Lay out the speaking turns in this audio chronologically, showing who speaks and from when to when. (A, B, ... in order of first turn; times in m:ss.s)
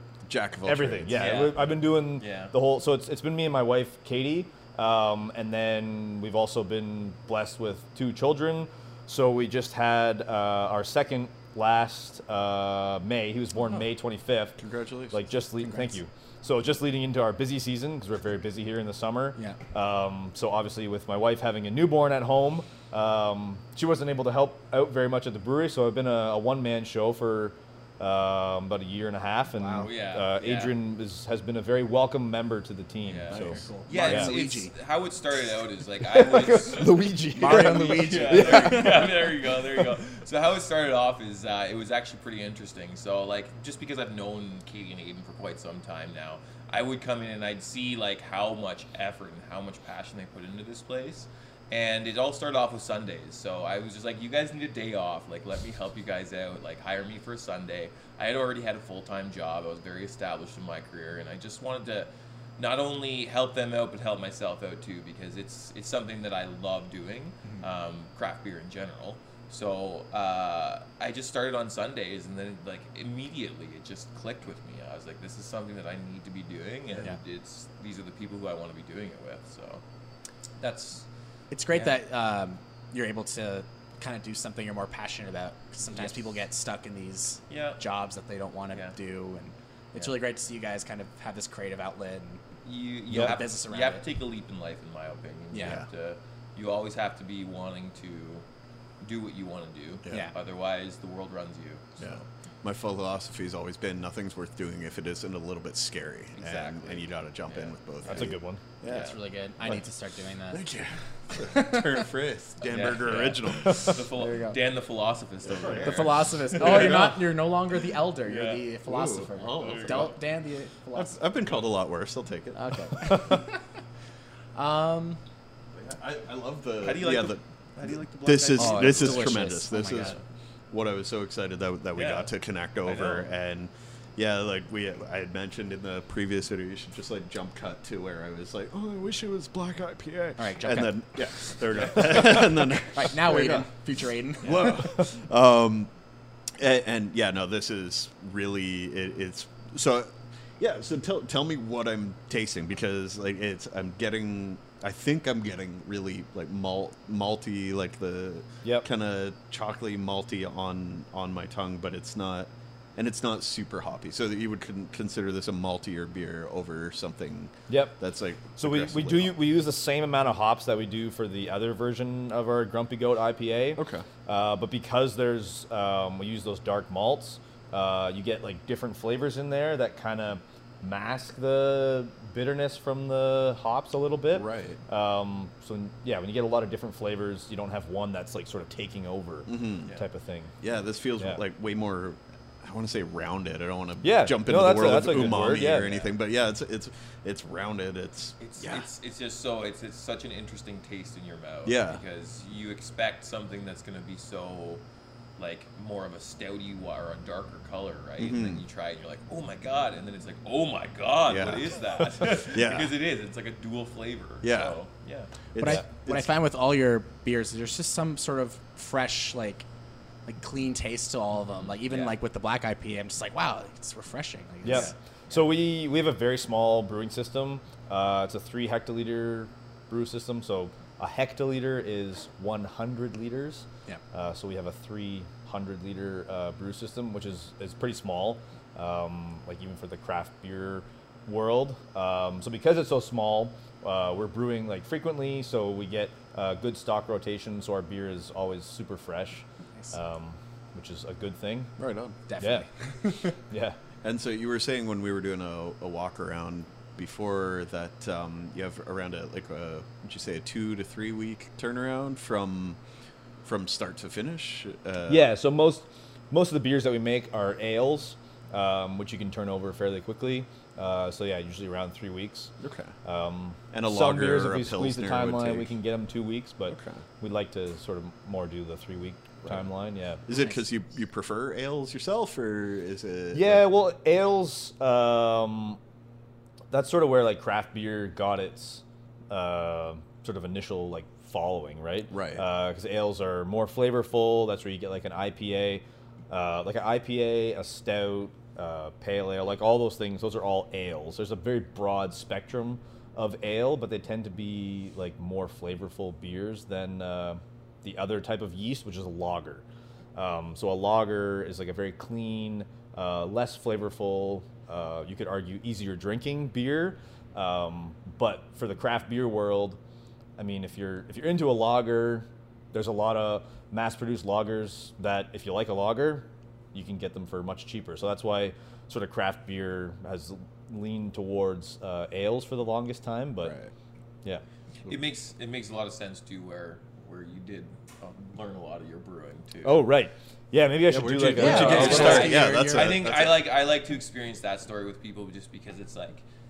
0:00.2-0:01.2 A
0:00.6-0:14.6 B
0:01.1-0:02.5 C
0:14.6-0:15.2 A
0:15.1-0:34.3 B
0:15.6-0:16.0 D
0:29.6-0:29.9 D
0:29.8-0:30.7 C
0:33.0-1:19.8 C
0:33.3-0:33.6 A
0:33.4-0:34.7 D
0:36.1-0:39.1 B
0:37.4-0:39.1 D
1:20.6-1:21.0 C
1:21.5-1:32.4 D
1:21.7-1:22.0 C
1:25.9-1:26.2 C
1:27.5-1:27.8 C
1:32.6-1:38.4 C
1:33.1-1:33.4 B
1:33.1-1:34.0 D
1:35.5-1:35.8 D
1:35.6-1:35.9 A
1:39.0-1:42.2 C
1:40.1-1:40.3 D
1:42.0-1:49.1 A
1:46.3-1:49.2 C
1:48.1-1:48.6 B
1:48.8-1:50.6 D
1:50.5-1:54.0 A
1:51.5-1:52.0 D
1:52.6-1:57.3 C
1:54.1-1:54.6 D
1:55.4-1:57.2 A
1:55.8-2:01.2 D
1:58.2-1:58.7 C
1:58.8-2:00.2 A
1:59.5-2:00.2 C
2:00.9-2:03.2 A
2:02.5-2:03.6 D
2:04.5-2:05.2 D
2:05.7-2:10.2 A
2:06.8-2:10.2 C
2:08.6-2:10.2 D
2:10.7-2:23.7 A
2:11.9-2:13.3 C
2:20.4-2:21.0 D
2:21.7-2:22.4 C
2:22.2-2:24.9 D
2:24.4-2:25.9 A
2:26.6-2:49.4 A
2:47.7-2:48.0 B
2:48.5-3:10.5 B
2:53.8-2:54.0 A
3:04.3-3:04.8 A
3:09.5-3:09.9 A
3:10.6-3:18.8 A
3:14.0-3:15.9 B
3:15.6-3:16.1 C
3:18.4-3:24.8 C
3:21.6-3:22.0 A
3:25.4-3:35.3 C
3:28.2-3:28.6 A
3:31.3-3:31.7 A
3:32.3-3:32.9 A
3:34.4-3:34.8 A
3:35.5-3:36.3 A
3:35.6-3:39.6 D
3:40.2-3:44.9 D
3:41.6-3:42.2 C
3:44.6-4:11.7 B
3:44.7-3:44.9 C
4:11.8-4:12.2 A
4:12.3-4:13.4 D
4:12.4-4:12.6 B
4:13.5-4:13.8 B
4:14.0-4:22.8 A
4:23.4-4:25.2 A
4:25.1-4:32.5 B
4:32.6-4:32.9 A
4:33.0-4:40.2 B
4:33.7-4:35.7 A
4:36.7-4:37.0 A
4:40.2-4:43.6 A
4:40.3-4:40.6 D
4:43.3-4:45.8 B
4:46.7-5:09.6 B
4:52.1-4:52.4 A
5:10.2-5:19.8 B
5:20.4-5:33.5 B
5:33.4-5:33.7 A
5:34.8-5:39.8 C
5:39.6-5:42.4 B
5:40.9-5:43.4 A
5:41.3-5:43.0 D
5:41.4-5:46.2 C